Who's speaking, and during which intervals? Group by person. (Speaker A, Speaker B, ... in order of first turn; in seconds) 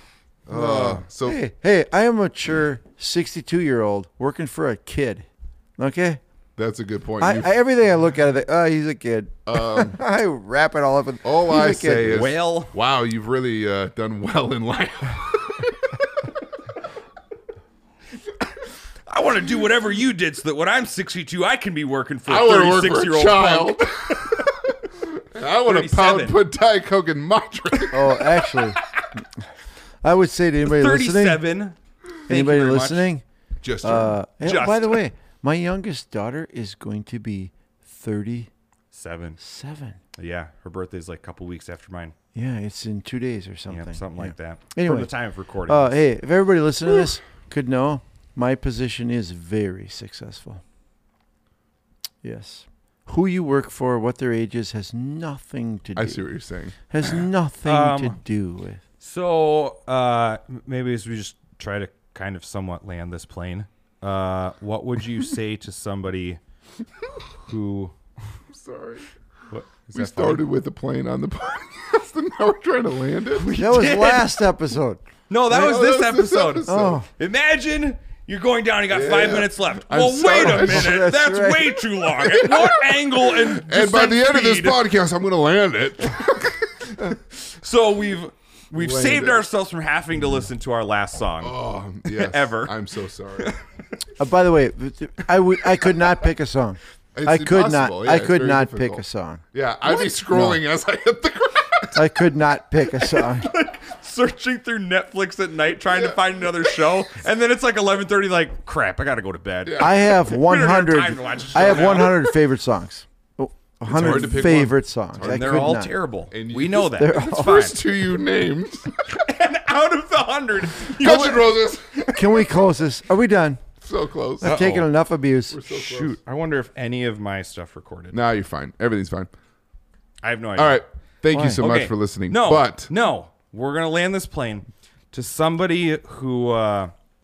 Speaker A: 0.5-1.4, 6.6-7.5, 9.5-10.0, 11.2-16.3, 22.3-28.4, 33.6-34.2, 56.0-57.1, 68.5-69.1, 69.9-73.5, 75.5-77.0, 78.9-81.0, 82.2-87.2, 88.7-89.4, 91.4-93.6, 97.1-102.0, 105.8-106.8, 109.7-110.0, 111.5-112.2, 113.9-115.6, 116.3-119.2, 120.8-122.3, 123.8-124.8, 125.5-126.2, 128.1-129.3, 130.6-132.9
Speaker B: 0.5-6.2, 7.2-12.3, 27.9-29.5, 30.0-31.4, 32.3-33.2, 33.8-38.5, 39.4-40.0, 42.3-45.1, 45.7-50.6, 52.2-56.2, 56.9-58.8, 73.5-75.0, 76.7-77.0, 80.4-81.8, 94.2-100.6, 101.9-103.5, 109.8-115.9, 116.9-117.7, 121.0-121.5, 122.1-123.6, 124.4-125.6, 131.3-131.6
Speaker C: 12.1-12.7, 19.1-24.5, 25.6-26.4, 28.8-29.1, 30.7-31.8, 32.3-33.1, 34.4-35.0, 38.9-39.4, 40.2-42.1, 43.7-46.0, 57.6-58.2, 59.0-66.4, 67.4-67.9, 69.5-70.4, 73.3-74.3, 75.3-84.8, 87.3-91.5, 92.0-92.7, 103.0-112.3, 114.0-114.2, 115.2-117.8, 119.1-122.2, 124.4-124.9, 125.7-128.2, 130.2-130.8, 131.5-136.9